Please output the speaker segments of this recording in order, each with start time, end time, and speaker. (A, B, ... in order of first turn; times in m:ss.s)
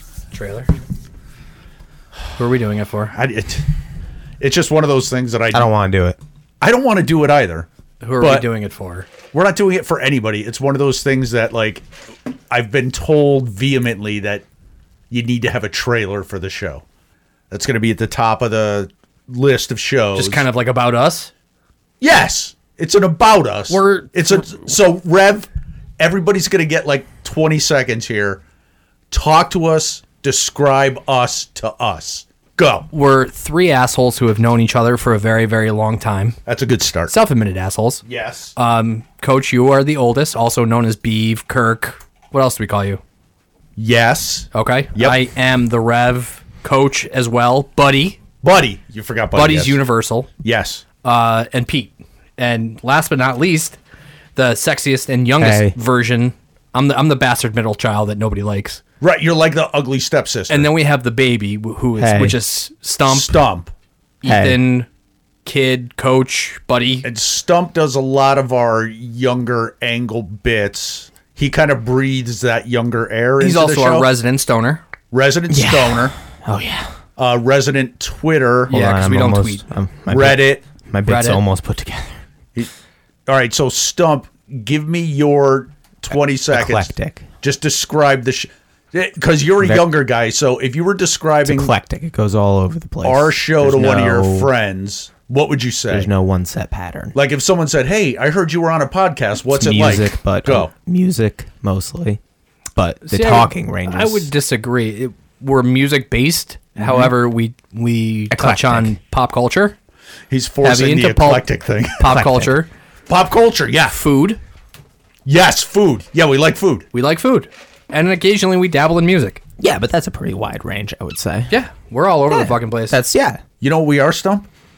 0:00.3-0:00.7 A
0:02.4-0:03.1 A
0:03.1-0:03.6 B
0:04.4-0:05.7 B
0:05.5-0:06.2 C
0:06.6-0:08.4 B
0:08.0-0:09.1 A
0:09.3-0:11.8 B
0:12.5-0:14.4 B
0:15.1-0:16.8 B
0:17.5-0:20.4 B
0:20.1-0:21.3 A
0:22.0-0:25.5 B
0:23.7-0:24.4 A
0:26.0-0:28.4 B
0:29.1-0:32.9 B
0:32.9-0:36.4 A
0:36.4-0:37.1 B
0:37.1-0:38.0 A
0:38.0-0:38.5 B
0:38.6-0:43.0 A
0:43.8-0:45.2 B
0:44.5-0:48.2 A
0:48.4-0:49.8 B
0:49.3-0:50.3 A
0:50.4-0:50.8 B
0:51.0-0:53.8 A
0:54.4-0:58.8 A
0:55.4-0:55.7 C
0:59.0-1:00.7 B
1:00.5-1:03.4 A
1:02.0-1:02.4 C
1:03.0-1:03.7 B
1:04.2-1:04.9 A
1:04.2-1:04.6 C
1:05.4-1:07.0 A
1:07.0-1:14.1 B
1:13.4-1:14.8 A
1:15.1-1:16.1 B
1:15.5-1:16.9 C
1:17.2-1:18.7 B
1:18.7-1:19.6 A
1:18.7-1:22.1 C
1:20.1-1:20.6 B
1:21.0-1:21.4 A
1:23.3-1:31.7 B
1:26.5-1:27.2 C
1:31.4-1:34.5 C
1:33.0-1:36.1 B
1:35.9-1:37.1 C
1:37.1-1:40.7 B
1:39.5-1:42.2 C
1:42.7-1:44.3 C
1:43.0-1:49.8 A
1:46.8-1:47.1 C
1:48.3-1:48.9 C
1:50.3-1:52.1 B
1:50.6-1:52.7 A
1:52.0-1:52.6 C
1:53.1-1:54.0 B
1:53.9-1:54.4 A
1:55.2-1:56.9 B
1:56.9-1:59.4 A
1:59.6-2:01.5 C
2:01.5-2:03.1 A
2:02.3-2:03.4 C
2:03.6-2:04.5 B